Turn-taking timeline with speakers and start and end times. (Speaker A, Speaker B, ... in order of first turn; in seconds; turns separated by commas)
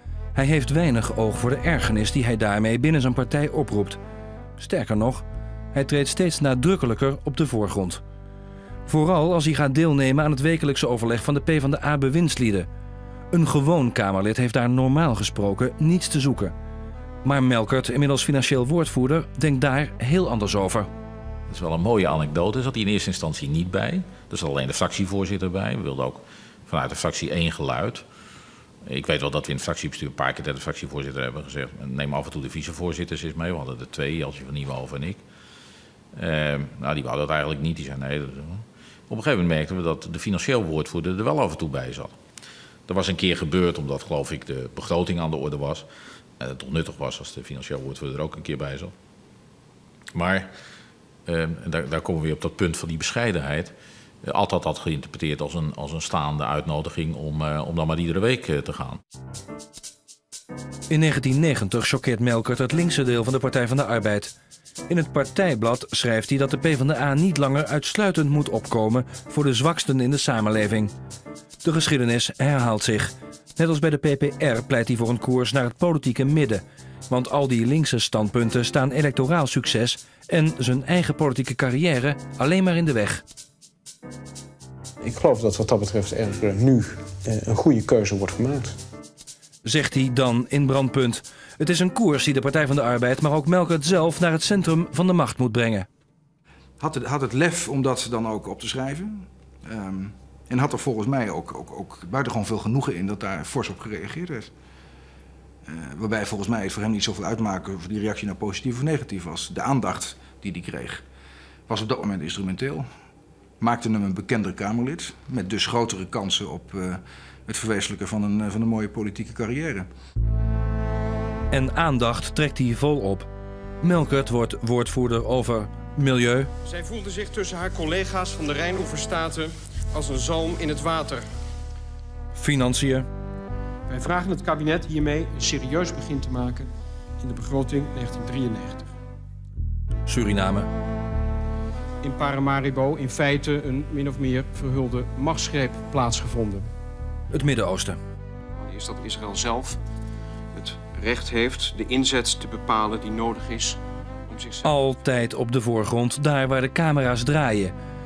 Speaker A: 0.3-4.0, Speaker A: 4.6-8.0, Speaker A: 8.9-12.7, Speaker A: 13.3-16.5, Speaker A: 17.2-20.9, Speaker B: 21.5-28.0, Speaker B: 28.8-35.2, Speaker B: 36.1-42.2, Speaker B: 42.9-45.9, Speaker B: 46.4-48.9, Speaker B: 50.1-50.5, Speaker B: 51.2-59.0, Speaker A: 60.9-64.3, Speaker A: 64.9-70.9, Speaker A: 71.6-83.2, Speaker C: 85.0-88.7, Speaker A: 89.6-95.9, Speaker D: 96.8-104.5, Speaker D: 105.7-111.0, Speaker D: 111.7-112.8, Speaker D: 113.6-119.9, Speaker A: 121.5-123.3, Speaker A: 123.8-126.5, Speaker C: 126.6-131.2, Speaker A: 132.3-133.1, Speaker C: 133.9-138.8, Speaker A: 140.1-140.7, Speaker C: 142.0-146.7, Speaker A: 147.3-148.0, Speaker C: 148.6-149.8, Speaker C: 150.5-154.8, Speaker A: 154.6-157.7